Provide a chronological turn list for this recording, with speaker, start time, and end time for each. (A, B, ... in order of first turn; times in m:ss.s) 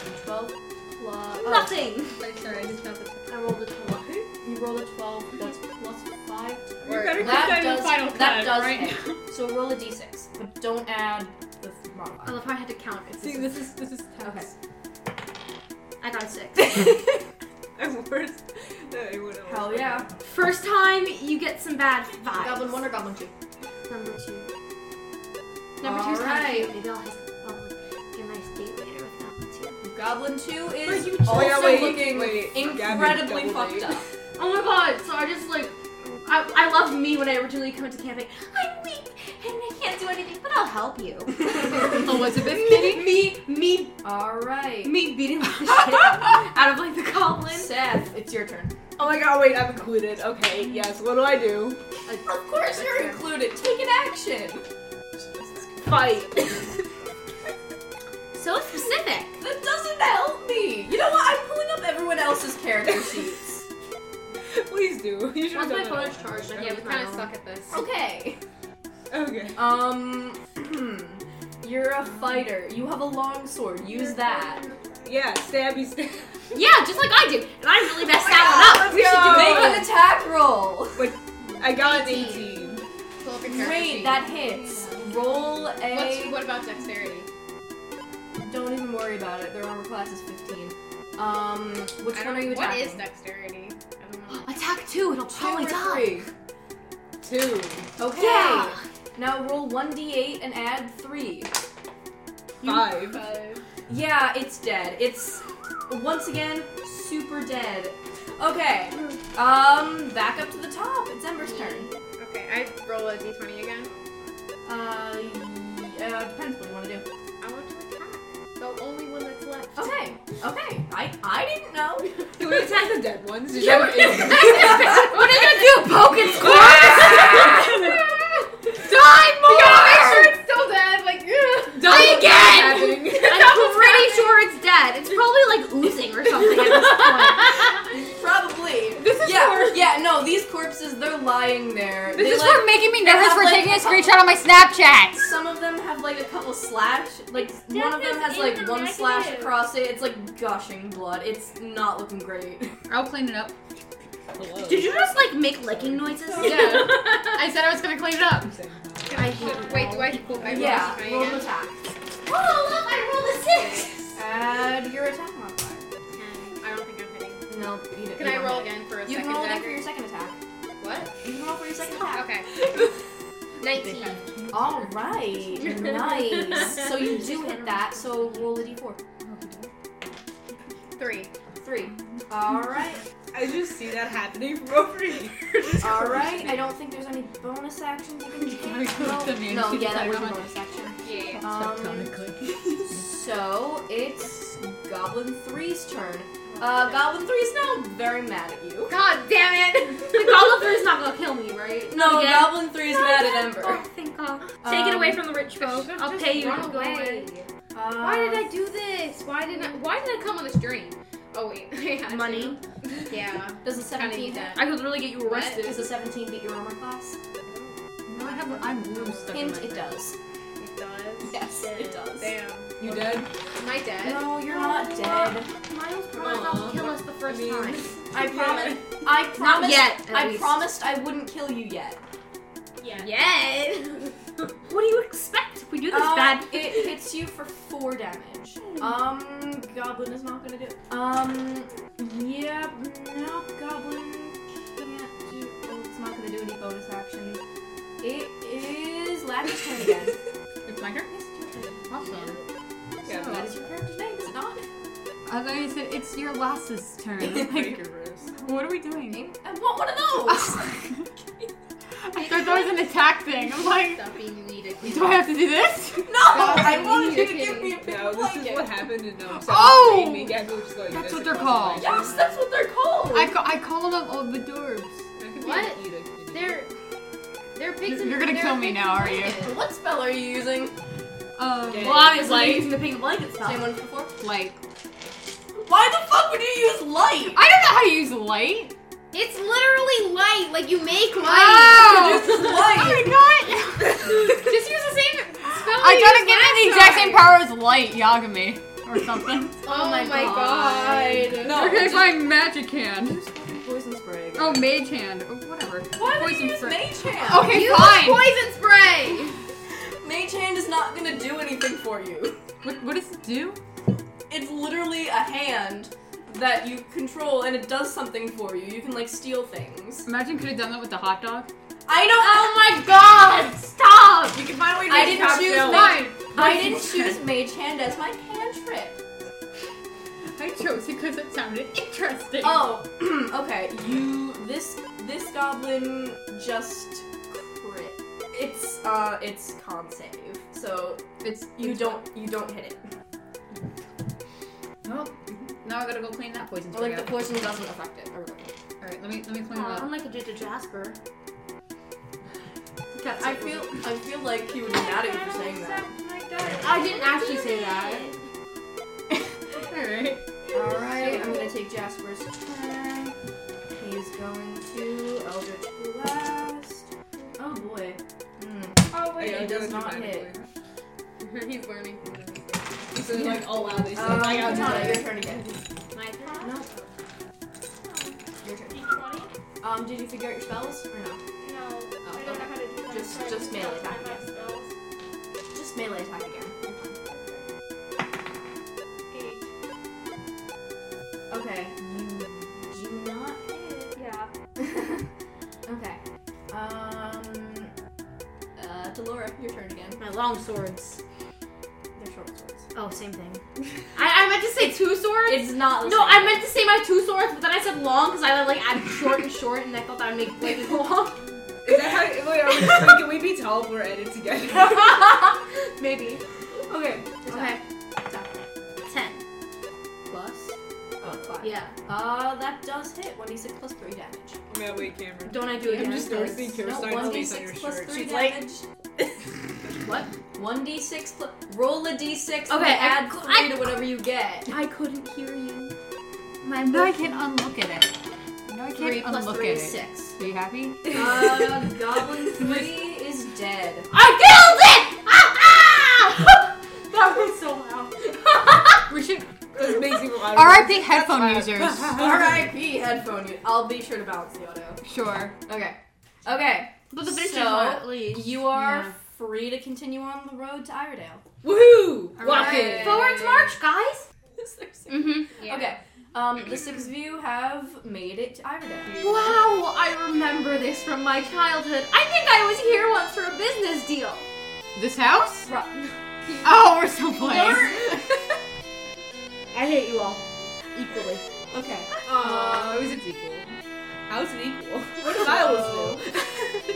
0:00.2-0:01.8 A
0:01.4-0:02.2 B
0:02.2-0:03.3 C
0:03.3-0:04.3 B
0:04.4-0:12.4 A
0:06.8-0:07.8 D
0:06.9-0:09.2 C
0:12.2-0:13.7 B
0:13.2-0:14.0 D
0:13.7-0:14.3 C
0:14.2-0:14.5 A
0:16.0-0:17.0 B
0:17.8-0:20.1 D
0:19.4-0:20.1 A
0:20.2-0:22.8 B
0:22.3-0:23.3 A
0:23.9-0:24.5 B
0:25.8-0:29.8 B
0:25.8-0:26.8 A
0:29.8-0:34.0 A
0:30.8-0:34.0 D
0:34.4-0:44.0 B
0:41.5-0:41.8 A
0:41.7-0:43.2 C
0:44.0-0:45.0 A
0:44.8-0:47.7 B
0:47.5-0:48.8 A
0:49.0-0:51.8 D
0:52.1-0:53.2 B
0:52.2-0:54.7 A
0:55.2-0:56.2 A
0:55.8-0:56.7 D
0:55.9-0:56.2 B
0:58.3-0:59.4 B
0:59.4-1:03.6 A
1:04.4-1:06.7 D
1:05.5-1:07.3 B
1:06.6-1:07.8 E
1:07.7-1:08.4 A
1:09.1-1:09.8 D
1:09.5-1:14.6 A
1:13.9-1:15.0 F
1:15.0-1:16.6 D
1:16.5-1:19.9 B
1:18.2-1:19.9 D
1:18.2-1:21.1 A
1:21.0-1:22.8 D
1:21.8-1:22.5 B
1:21.8-1:22.4 E
1:23.2-1:24.2 E
1:23.5-1:26.4 A
1:25.8-1:27.3 E
1:28.4-1:33.0 A
1:32.1-1:34.6 E
1:34.3-1:36.1 B
1:35.3-1:36.3 A
1:37.2-1:37.9 D
1:38.0-1:41.5 A
1:38.1-1:38.8 B
1:42.6-1:43.2 D
1:42.9-1:43.6 E
1:43.9-1:51.9 A
1:51.4-1:54.3 E
1:54.6-1:57.0 A
1:57.4-2:00.0 E
1:59.8-2:02.1 A
2:02.4-2:04.9 D
2:03.5-2:07.9 B
2:06.4-2:07.5 D
2:06.5-2:07.5 A
2:07.7-2:08.5 E
2:08.8-2:10.3 B
2:09.4-2:12.0 E
2:11.7-2:13.6 D
2:11.8-2:17.8 B
2:13.4-2:14.3 E
2:17.8-2:24.3 A
2:22.1-2:25.3 C
2:25.1-2:32.8 A
2:27.3-2:29.7 F
2:32.9-2:33.5 C
2:34.3-2:36.2 D
2:34.6-2:37.4 B
2:36.4-2:36.6 F
2:36.4-2:37.0 A
2:36.6-2:38.6 C
2:38.4-2:39.4 D
2:39.1-2:41.5 E
2:39.1-2:40.9 B
2:39.3-2:40.7 F
2:40.4-2:41.9 A
2:42.2-2:44.1 B
2:43.5-2:43.9 E
2:44.1-2:45.9 A
2:46.1-2:47.5 E
2:47.5-2:50.4 A
2:48.1-2:49.9 E
2:50.8-2:51.1 E
2:51.2-2:52.3 A
2:52.0-2:52.8 E
2:53.6-2:54.3 E
2:54.0-2:54.9 C
2:54.5-2:59.0 A
2:55.6-2:57.0 E
2:57.1-2:57.4 B
2:59.2-2:59.7 C
3:01.0-3:01.3 E
3:01.6-3:03.0 A
3:03.3-3:05.6 D
3:05.8-3:19.0 A
3:05.8-3:06.6 E
3:08.4-3:10.4 C
3:11.0-3:11.5 E
3:11.2-3:13.0 C
3:16.5-3:17.1 E
3:18.9-3:20.6 E
3:20.1-3:27.3 B
3:21.9-3:23.8 A
3:24.6-3:25.3 A
3:25.6-3:27.5 E
3:27.7-3:28.5 A
3:28.0-3:35.8 E
3:32.1-3:32.6 A
3:33.6-3:37.2 A
3:34.6-3:35.7 B
3:37.4-3:39.4 E
3:38.1-3:40.0 C
3:39.3-3:40.2 A
3:40.6-3:43.0 E
3:41.3-3:43.2 A
3:42.8-3:43.3 D
3:43.6-3:44.6 E
3:44.0-3:45.6 A
3:44.8-3:50.7 B
3:46.2-3:48.8 D
3:48.1-3:52.0 A
3:52.8-3:54.1 E
3:54.7-3:56.9 B
3:55.9-4:07.4 A
4:08.0-4:10.2 A
4:10.6-4:11.1 C
4:11.1-4:11.9 A
4:11.9-4:12.4 C
4:13.0-4:13.5 D
4:13.0-4:14.6 A
4:15.2-4:17.8 C
4:17.2-4:18.3 D
4:18.4-4:19.3 C
4:19.0-4:21.5 A
4:20.3-4:21.0 C
4:22.1-4:24.0 C
4:22.2-4:22.6 A
4:23.6-4:25.3 E
4:24.8-4:26.9 C
4:26.0-4:28.7 A
4:26.2-4:27.8 E
4:27.8-4:32.2 D
4:29.3-4:32.0 C
4:31.7-4:33.4 A
4:33.1-4:35.0 C
4:35.2-4:36.6 D
4:35.4-4:36.7 E
4:37.5-4:39.5 E
4:37.8-4:39.5 C
4:39.4-4:40.8 A
4:41.4-4:42.6 C
4:41.6-4:42.3 D
4:41.7-4:43.7 B
4:43.4-4:44.1 A
4:44.2-4:44.6 C
4:45.5-4:47.4 A
4:47.3-4:48.7 C
4:49.1-4:52.5 E
4:51.2-4:54.3 C
4:51.6-4:53.2 A
4:53.9-4:57.4 E
4:55.6-4:59.7 C
4:59.6-5:01.6 E
4:59.6-5:02.3 A
5:01.4-5:03.6 C
5:03.5-5:04.8 A
5:04.3-5:08.3 C
5:05.9-5:07.5 A
5:07.3-5:09.4 E
5:09.8-5:12.4 A
5:12.6-5:13.6 C
5:14.3-5:20.1 A
5:20.0-5:21.5 C
5:21.9-5:22.7 A
5:22.2-5:27.1 B
5:24.3-5:26.1 D
5:24.9-5:29.0 A
5:25.3-5:26.3 C
5:30.3-5:32.8 C
5:32.4-5:42.8 A
5:41.2-5:42.1 C
5:44.8-5:47.3 C
5:46.7-5:48.6 A
5:48.8-5:49.9 C
5:49.5-5:51.0 B
5:52.9-5:53.9 B
5:53.2-5:55.9 A
5:54.5-5:57.9 F
5:56.6-5:58.2 B
5:59.7-6:00.2 C
6:00.5-6:01.5 F
6:00.5-6:03.2 A
6:03.7-6:10.3 A
6:08.9-6:09.7 F
6:09.1-6:10.5 D
6:11.2-6:12.6 E
6:12.9-6:15.0 D
6:13.2-6:15.5 A
6:14.7-6:15.1 F
6:15.9-6:16.6 B
6:16.4-6:16.7 A
6:17.9-6:18.1 F
6:18.4-6:18.8 A
6:18.7-6:19.3 F
6:19.6-6:21.2 A
6:21.4-6:24.8 F
6:22.0-6:24.2 A
6:25.5-6:27.0 A
6:27.0-6:27.4 F
6:29.1-6:29.5 F
6:31.3-6:34.0 A
6:33.9-6:34.3 F
6:34.6-6:35.1 A
6:35.6-6:37.7 A
6:38.6-6:40.0 A
6:40.0-6:41.0 B
6:42.0-6:42.7 A
6:42.7-6:43.4 B
6:43.9-6:51.2 B
6:45.2-6:46.4 A
6:51.6-6:55.2 D
6:55.8-6:56.2 B
6:56.7-6:58.3 A
6:57.2-6:57.6 B
6:58.8-6:59.2 B
7:00.1-7:04.4 A
7:01.4-7:01.7 B
7:04.5-7:08.4 D
7:05.2-7:07.3 B
7:05.6-7:08.6 A
7:09.8-7:10.1 B
7:10.3-7:14.6 A
7:12.5-7:13.7 B
7:14.5-7:15.7 B
7:16.4-7:17.3 B
7:16.6-7:20.9 C
7:18.7-7:20.2 B
7:20.8-7:21.6 B
7:20.9-7:23.9 A
7:23.9-7:28.8 B
7:28.9-7:29.4 C
7:29.5-7:32.3 D
7:30.2-7:32.0 C
7:31.9-7:34.8 A
7:34.8-7:35.3 C
7:35.5-7:41.2 A
7:36.9-7:38.4 B
7:38.5-7:38.9 C
7:41.4-7:42.6 D
7:42.2-7:43.0 C
7:42.2-7:44.1 B
7:42.3-7:43.4 E
7:44.4-7:49.0 A
7:44.9-7:45.3 B
7:45.3-7:45.7 E
7:48.9-7:49.4 D
7:49.0-7:54.3 B
7:54.7-7:55.5 C
7:55.5-7:55.9 B
7:56.4-7:58.0 C
7:57.2-7:57.8 B
7:59.5-8:01.2 B
8:01.5-8:02.3 A
8:02.0-8:03.5 D
8:04.1-8:06.2 D
8:05.2-8:06.0 B